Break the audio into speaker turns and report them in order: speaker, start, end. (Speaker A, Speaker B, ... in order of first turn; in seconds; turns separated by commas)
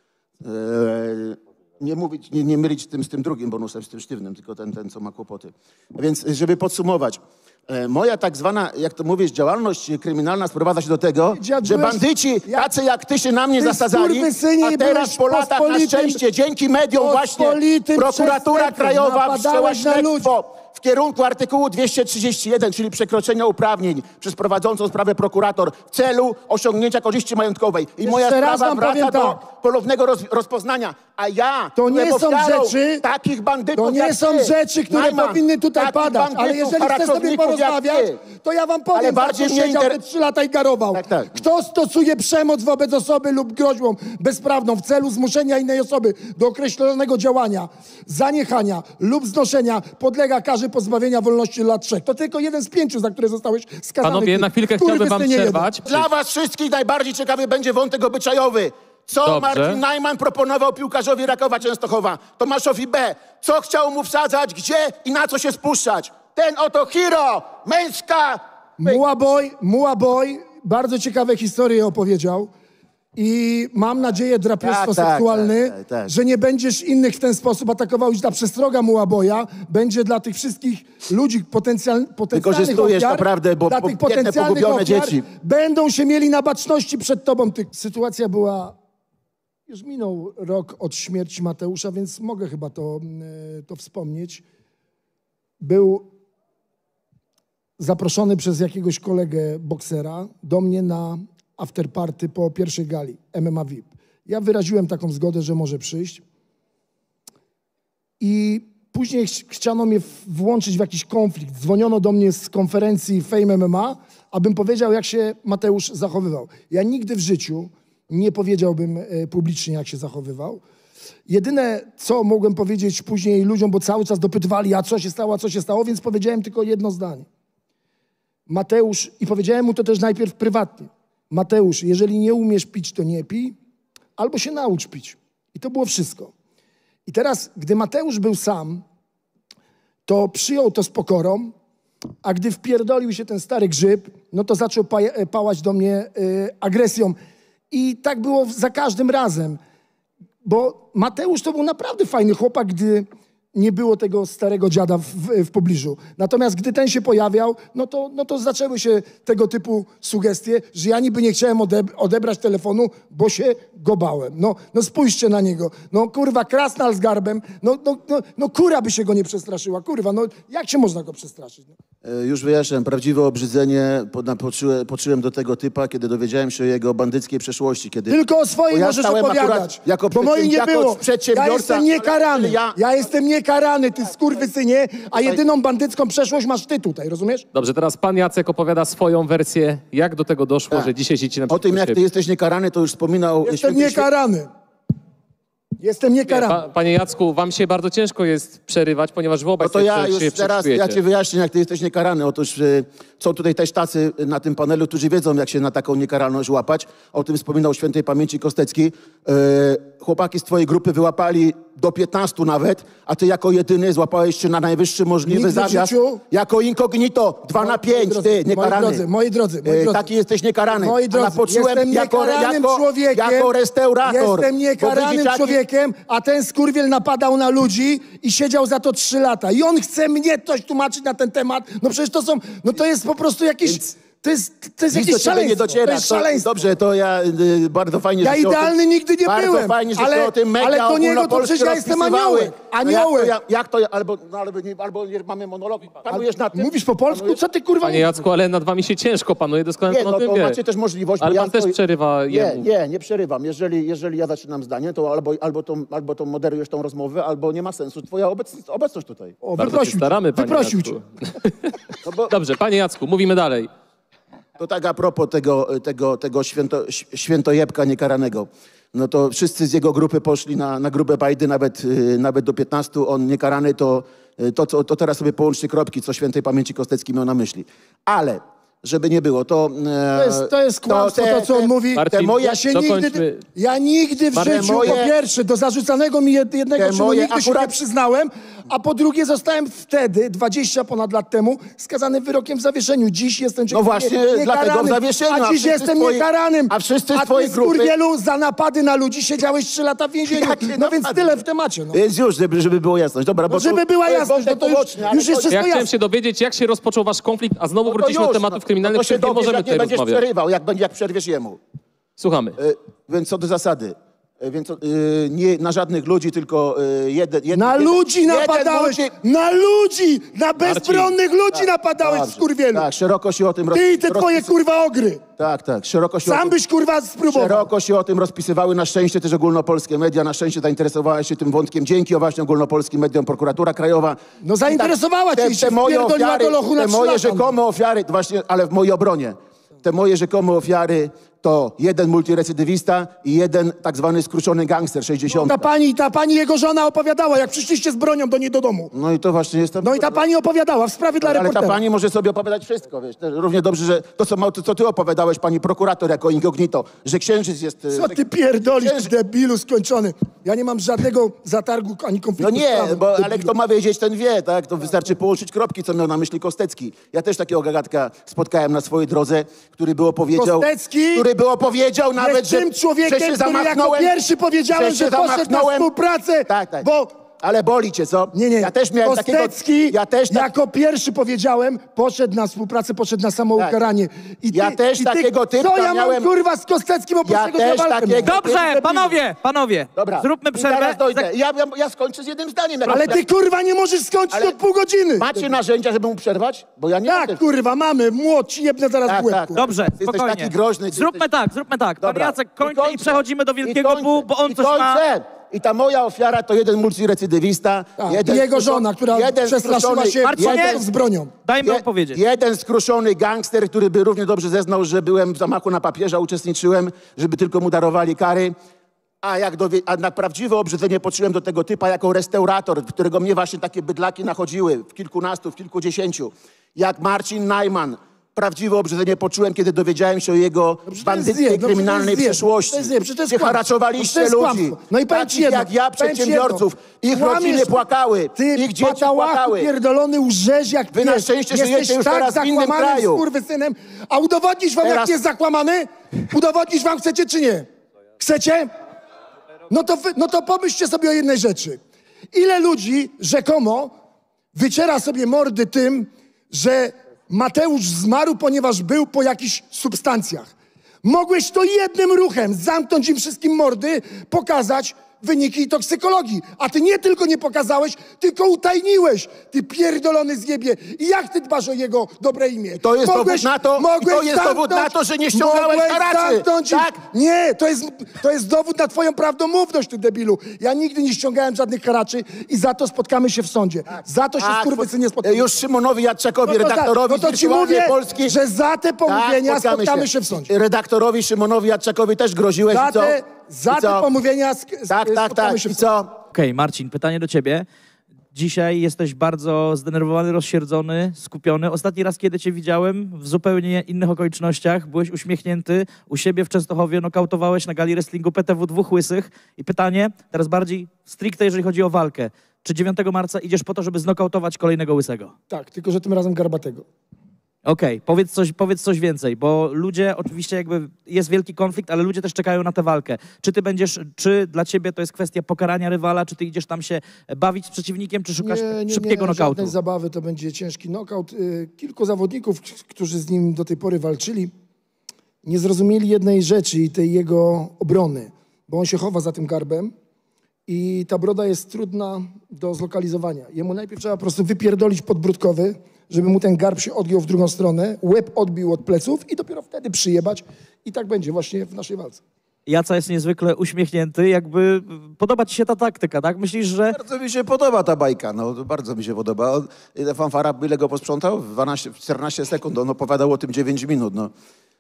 Speaker A: 0.4-38.2, Speaker B: 11.3-12.7, Speaker B: 13.6-16.2, Speaker B: 16.9-20.3, Speaker B: 28.0-29.4, Speaker B: 31.8-33.0, Speaker B: 33.8-55.7, Speaker A: 38.9-40.0, Speaker A: 40.9-41.4, Speaker C: 54.0-56.0, Speaker A: 55.9-69.0, Speaker C: 59.2-59.8, Speaker B: 68.8-72.5, Speaker B: 73.2-88.8, Speaker A: 74.6-76.1, Speaker A: 82.3-85.3, Speaker B: 89.7-94.4, Speaker B: 95.6-96.1, Speaker B: 97.8-106.2, Speaker B: 108.2-120.6, Speaker B: 121.3-127.3, Speaker B: 128.5-133.6, Speaker B: 134.2-136.3, Speaker B: 137.1-138.8, Speaker B: 140.1-141.5, Speaker B: 142.2-147.2, Speaker B: 147.7-149.6, Speaker B: 150.4-171.7, Speaker A: 172.0-178.2, Speaker B: 178.1-187.5, Speaker A: 178.7-182.8, Speaker C: 187.5-192.0, Speaker A: 191.5-194.1, Speaker B: 193.4-194.5, Speaker B: 195.8-196.6, Speaker C: 196.3-201.0, Speaker A: 199.6-219.1, Speaker B: 215.3-216.2, Speaker B: 217.6-220.0, Speaker A: 219.6-225.6, Speaker B: 220.7-223.5, Speaker B: 224.0-236.6, Speaker A: 234.9-247.4, Speaker B: 238.2-243.3, Speaker B: 246.1-248.2, Speaker C: 247.8-250.6, Speaker A: 249.9-251.8, Speaker C: 251.2-252.7, Speaker A: 252.3-259.4, Speaker B: 259.4-260.9, Speaker C: 259.6-261.7, Speaker A: 262.0-262.3, Speaker C: 262.3-263.7, Speaker A: 264.6-282.7, Speaker B: 280.1-302.0, Speaker C: 281.9-283.4, Speaker C: 284.3-285.0, Speaker A: 284.3-285.1, Speaker A: 286.8-287.7, Speaker A: 293.7-297.9, Speaker A: 300.3-301.4, Speaker A: 301.9-305.6, Speaker B: 303.5-305.9, Speaker C: 305.5-310.2, Speaker A: 307.9-311.6, Speaker C: 312.2-312.6, Speaker A: 312.6-319.1, Speaker B: 317.5-322.9, Speaker C: 320.6-321.1, Speaker A: 321.6-324.6, Speaker B: 323.7-325.2, Speaker A: 325.4-326.5, Speaker B: 326.3-327.7, Speaker A: 327.3-345.7, Speaker B: 334.4-337.5, Speaker B: 345.3-348.9, Speaker A: 348.9-350.2, Speaker B: 349.8-351.8, Speaker A: 351.2-358.2, Speaker B: 357.9-363.5, Speaker A: 358.8-359.1, Speaker A: 362.4-374.1, Speaker B: 370.4-371.3, Speaker B: 372.2-377.1, Speaker A: 374.7-375.9, Speaker A: 376.5-380.5, Speaker B: 378.3-389.1, Speaker A: 384.5-386.3, Speaker A: 387.2-388.8, Speaker D: 388.2-391.3, Speaker A: 390.0-393.2, Speaker B: 392.9-395.5, Speaker A: 394.3-394.6, Speaker A: 395.2-397.4, Speaker B: 397.1-399.7, Speaker A: 399.1-401.3, Speaker D: 399.6-405.0, Speaker A: 402.0-410.9, Speaker B: 408.0-411.3, Speaker D: 410.3-410.8, Speaker D: 411.4-412.2, Speaker A: 411.6-418.5, Speaker A: 419.2-439.7, Speaker B: 430.9-437.8, Speaker B: 438.4-447.7, Speaker A: 440.9-443.2, Speaker A: 444.8-445.2, Speaker B: 448.2-448.7, Speaker B: 449.7-451.8, Speaker B: 452.3-453.9, Speaker B: 454.6-460.5, Speaker B: 461.0-485.6, Speaker A: 472.8-476.9, Speaker A: 484.4-488.4, Speaker B: 486.5-490.5, Speaker A: 489.1-494.1, Speaker B: 492.7-495.8, Speaker A: 494.9-496.2, Speaker D: 496.3-497.7, Speaker D: 498.3-515.3, Speaker B: 515.5-516.9, Speaker D: 517.6-529.7, Speaker B: 528.4-534.5, Speaker B: 535.4-539.9, Speaker B: 540.7-552.2, Speaker D: 552.7-557.0, Speaker A: 556.9-564.3